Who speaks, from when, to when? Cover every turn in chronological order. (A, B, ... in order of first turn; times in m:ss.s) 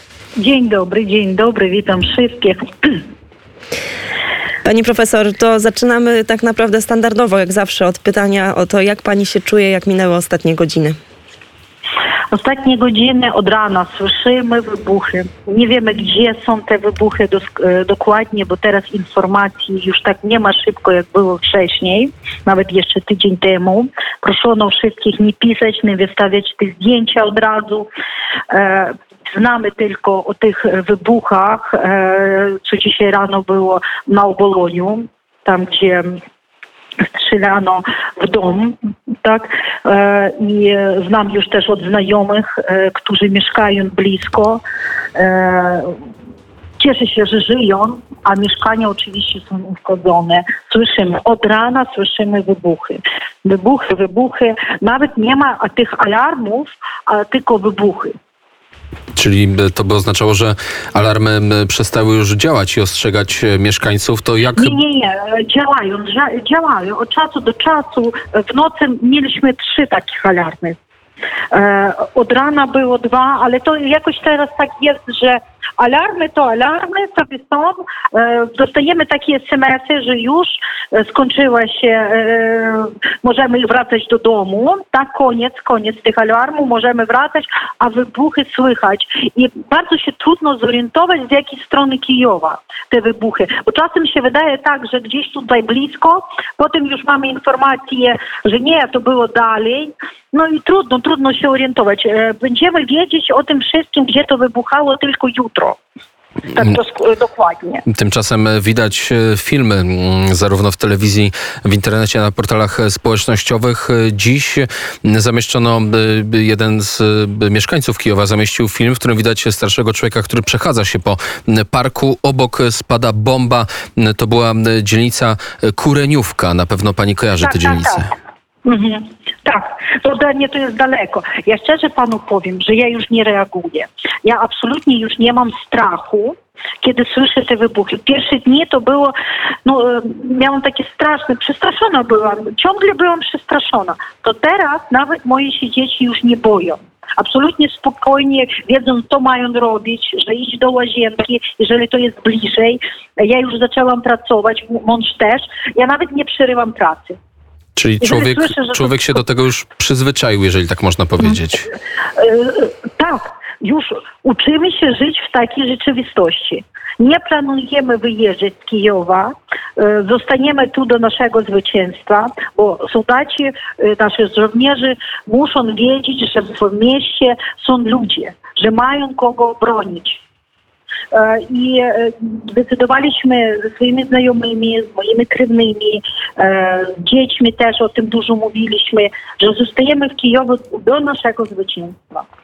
0:00.4-0:03.0 A
0:04.6-0:11.0 B
0:12.3-0:27.9 A
0:28.5-0:36.2 A
0:37.0-0:44.6 A
0:45.2-0:46.0 A
0:46.8-0:58.2 A
0:59.2-1:04.8 C
1:04.6-1:10.8 A
1:11.5-1:45.8 A
1:46.5-1:47.8 A
1:47.9-2:08.1 C
2:07.4-2:08.0 A
2:08.6-2:19.1 A
2:19.6-2:37.2 A
2:37.8-2:41.7 C
2:38.0-2:39.1 A
2:42.2-3:00.2 A
3:01.1-3:12.3 A